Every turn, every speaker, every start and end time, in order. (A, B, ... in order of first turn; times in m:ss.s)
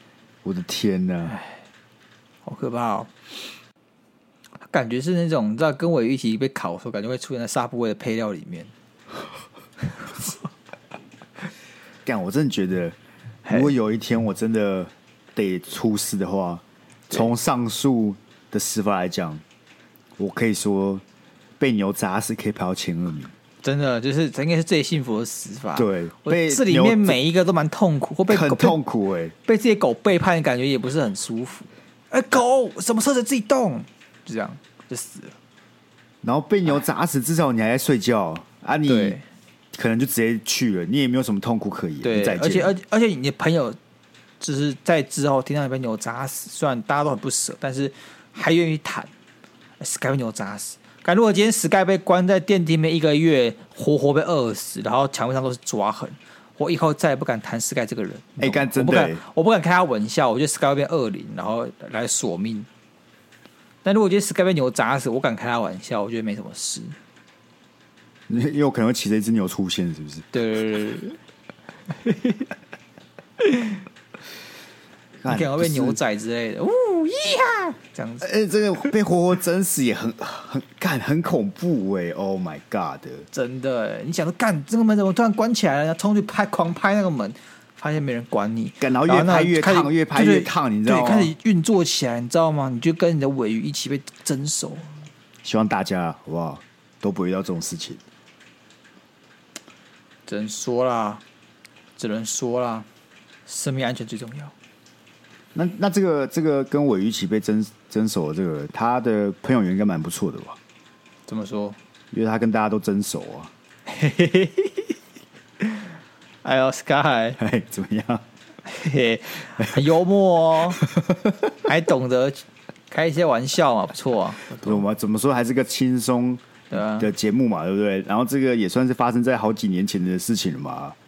0:00.4-0:01.4 A
0:01.3-0:01.6 B
0:02.4-0:03.1 B
0:04.6-0:08.7 B
0:12.0-0:19.4 A
0:13.5-0:13.7 B
0:20.2-0:21.0 A
0:21.6-0:23.3 A
0:23.6-0:28.8 B
0:25.7-0:27.2 A
0:28.3-0:29.3 A
0:29.4-0:35.3 B
0:36.2-0:39.2 A
0:38.9-0:39.2 B
0:39.7-0:42.7 A
0:42.0-0:43.8 B
0:44.4-0:49.1 B
0:49.8-1:02.7 B
0:58.4-0:59.2 A
1:03.8-1:07.0 B
1:08.3-1:10.3 A
1:10.3-1:11.2 B
1:11.9-1:12.5 B
1:13.4-1:13.8 B
1:15.2-1:16.0 A
1:15.3-1:18.3 B
1:18.2-1:23.3 A
1:23.3-1:34.9 B
1:28.8-1:31.3 A
1:35.4-1:38.0 A
1:40.3-1:41.2 B
1:42.0-1:42.9 B
1:43.4-1:44.5 B
1:45.5-1:50.6 A
1:51.3-1:51.8 B
1:52.1-1:53.5 A
1:53.9-1:54.9 B
1:55.6-1:55.9 B
1:56.4-1:57.4 B
1:57.4-1:58.2 A
1:58.6-2:00.8 B
2:00.8-2:01.5 A
2:01.6-2:04.8 B
2:04.6-2:11.0 A
2:06.7-2:07.1 B